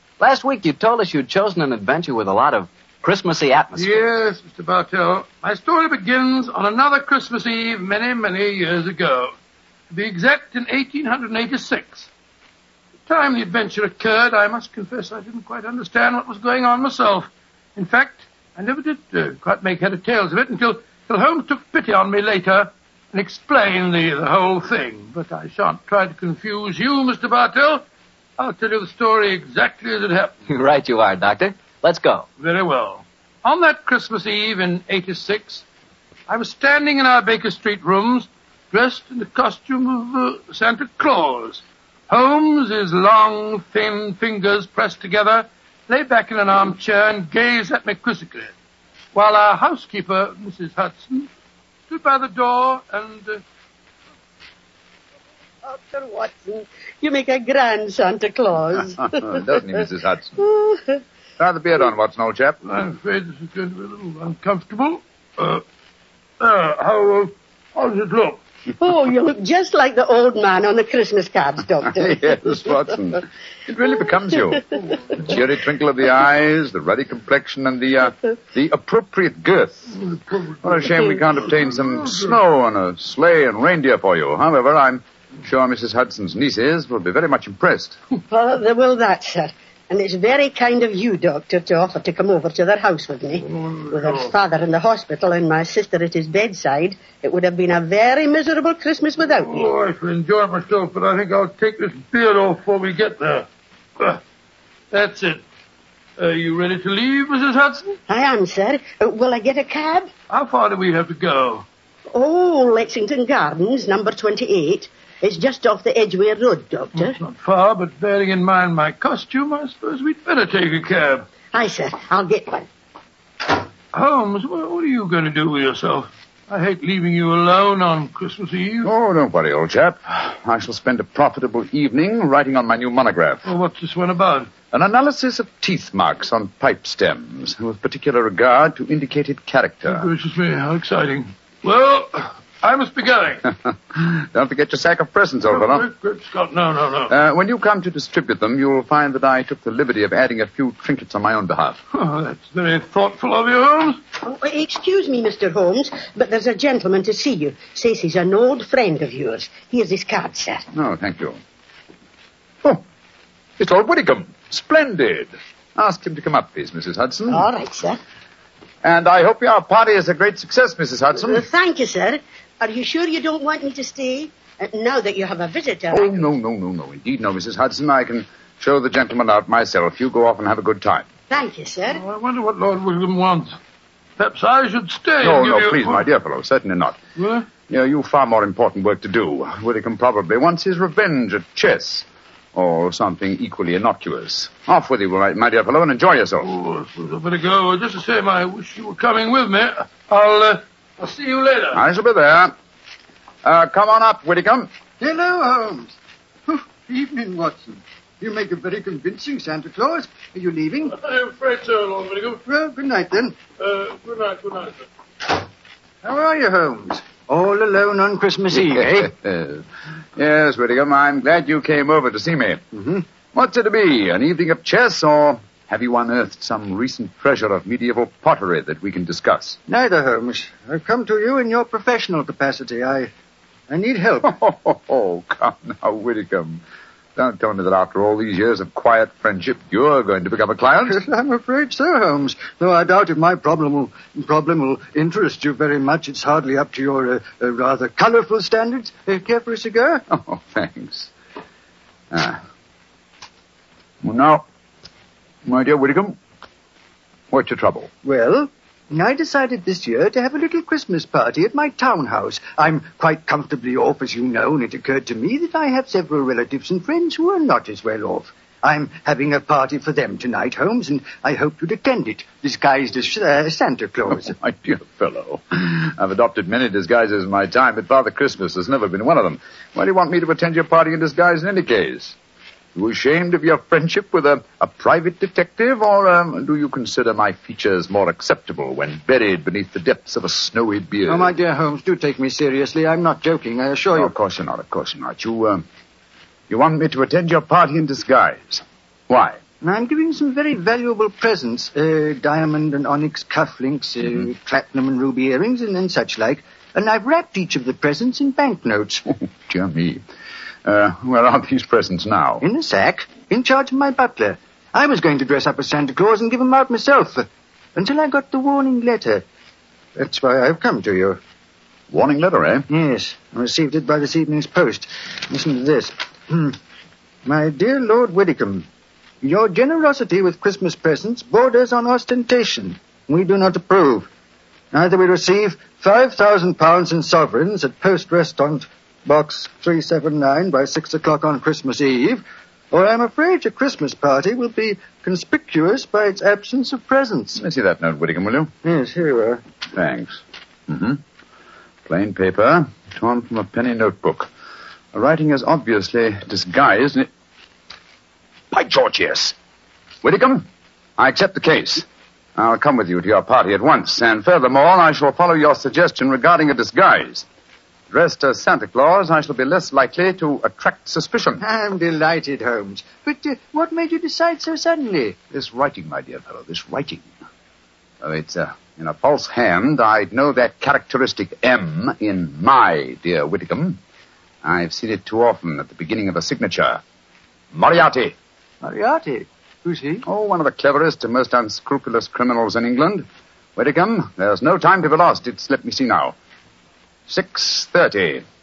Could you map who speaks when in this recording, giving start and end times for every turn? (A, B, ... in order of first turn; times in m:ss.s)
0:00.2-0:04.0 A
0:03.8-0:09.3 B
0:09.9-0:12.1 B
0:13.1-0:27.8 B
0:28.4-0:30.3 B
0:30.5-0:32.3 A
0:32.4-0:35.6 B
0:36.3-0:48.5 B
0:49.1-0:51.3 B
0:51.9-0:53.4 B
0:55.6-0:59.4 C
0:59.0-1:00.4 D
1:00.4-1:00.8 C
1:01.4-1:02.6 D
1:02.6-1:05.6 B
1:06.4-1:08.4 B
1:08.8-1:12.5 C
1:11.8-1:20.0 D
1:20.6-1:28.0 D
1:28.3-1:39.7 C
1:33.6-1:34.3 B
1:39.5-1:43.5 B
1:44.9-1:45.4 B
1:46.2-1:47.9 B
1:48.1-1:50.1 C
1:50.3-1:51.6 B
1:52.1-1:57.2 C
1:57.0-2:01.2 B
2:01.5-2:02.7 C
2:03.9-2:08.9 B
2:08.8-2:13.4 D
2:13.4-2:14.5 B
2:14.7-2:20.1 D
2:19.8-2:23.4 B
2:23.4-2:25.8 D
2:25.5-2:27.1 B
2:27.1-2:31.8 D
2:31.9-2:34.0 B
2:34.2-2:40.6 C
2:40.7-2:41.4 D
2:43.6-2:47.5 D
2:47.3-2:48.0 C
2:48.8-2:51.5 D
2:51.2-2:56.2 C
2:55.9-3:01.1 D
3:01.3-3:02.0 C
3:01.9-3:03.6 B
3:04.2-3:06.0 B
3:05.2-3:07.0 D
3:07.2-3:07.5 B
3:07.7-3:16.5 D
3:16.4-3:21.8 B
3:21.7-3:22.5 D
3:23.4-3:24.7 D
3:25.0-3:26.0 E
3:26.5-3:31.0 E
3:30.9-3:32.4 B
3:32.4-3:33.4 E
3:33.6-3:34.9 B
3:36.0-3:39.1 E
3:38.5-3:39.6 D
3:40.2-3:42.6 D
3:42.7-3:43.0 E
3:43.3-3:49.6 D
3:49.7-3:53.1 E
3:53.7-3:54.4 E
3:54.2-3:56.6 D
3:57.2-4:01.0 D
4:00.8-4:10.0 E
4:10.1-4:11.1 D
4:12.1-4:12.4 D
4:14.0-4:14.4 D
4:15.4-4:16.2 D
4:17.3-4:17.9 D
4:18.0-4:34.3 E
4:34.4-4:42.2 D
4:42.7-4:51.3 D
4:51.1-4:54.1 E
4:53.9-4:55.6 D
4:56.5-4:59.4 D
4:59.6-5:09.0 E
5:09.2-5:10.0 D
5:10.6-5:12.4 D
5:12.4-5:19.2 E
5:20.0-5:21.2 E
5:21.9-5:22.6 D
5:22.7-5:26.6 E
5:27.2-5:28.7 E
5:29.2-5:34.1 E
5:34.7-5:47.4 E
5:47.3-5:48.5 D
5:48.6-5:49.4 E
5:49.7-5:51.0 D
5:51.8-5:54.3 D
5:54.9-5:57.1 D
5:58.5-5:59.3 D
6:00.0-6:00.5 D
6:01.0-6:07.2 D
6:07.9-6:11.4 D
6:11.4-6:15.2 E
6:15.3-6:17.1 D
6:18.0-6:23.8 D
6:24.4-6:26.8 D
6:27.5-6:28.1 D
6:28.6-6:30.0 E
6:30.0-6:36.1 D
6:37.1-6:38.2 D